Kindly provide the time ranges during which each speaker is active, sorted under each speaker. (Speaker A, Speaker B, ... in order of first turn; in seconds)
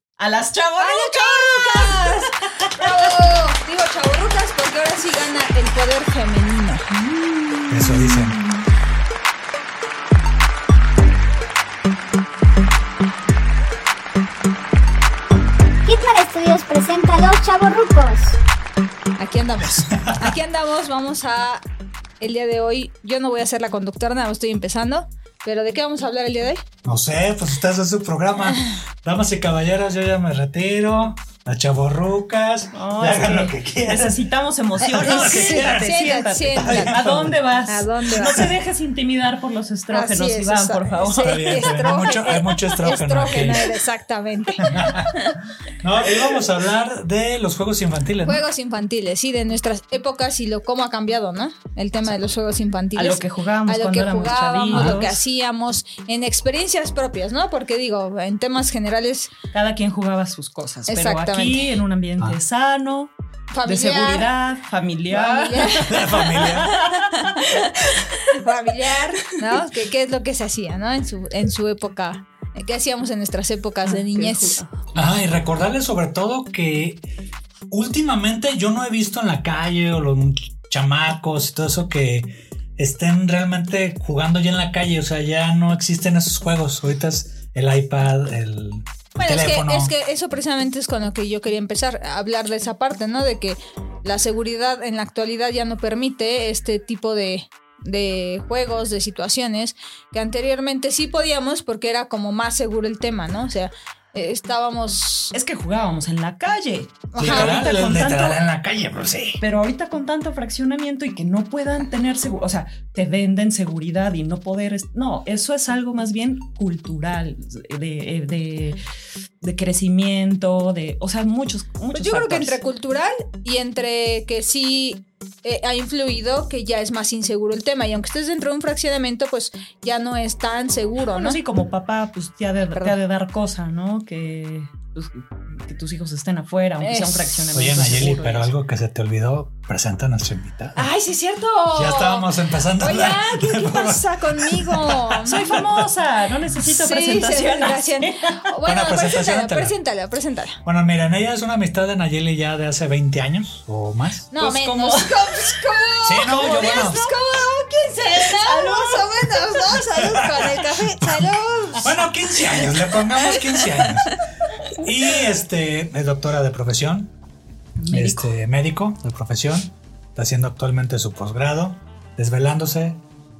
Speaker A: 0.2-3.1, 7.2-8.3, 32.7-41.7, 52.9-55.2, 59.5-63.1, 63.6-68.3, 73.8-74.7, 105.3-108.4, 109.4-118.8, 119.4-122.6, 131.1-138.5, 145.2-148.4, 154.4-155.6, 158.1-159.6, 167.8-168.3
Speaker B: 0.8-6.9, 19.2-21.6, 22.2-26.6, 34.8-37.1, 37.7-38.5, 39.9-45.4, 48.2-59.3, 60.9-61.6, 63.5-64.3, 65.1-66.1, 68.3-74.6, 89.2-105.3, 107.1-107.6, 121.9-131.4, 136.8-137.4, 140.8-145.6, 146.7-150.6, 154.3-161.9
Speaker C: 7.7-8.4, 19.9-20.3, 26.8-34.2, 34.8-36.0, 36.6-37.4, 38.2-38.5, 41.2-43.7, 44.6-45.1, 45.8-48.4, 54.7-55.0, 65.8-66.7, 74.9-77.0, 77.7-89.9, 107.2-109.4, 137.5-140.8, 141.7-145.9, 148.7-149.7, 150.6-154.3, 156.0-157.1, 160.0-164.1, 164.8-167.1, 167.9-173.0
Speaker D: 15.8-18.4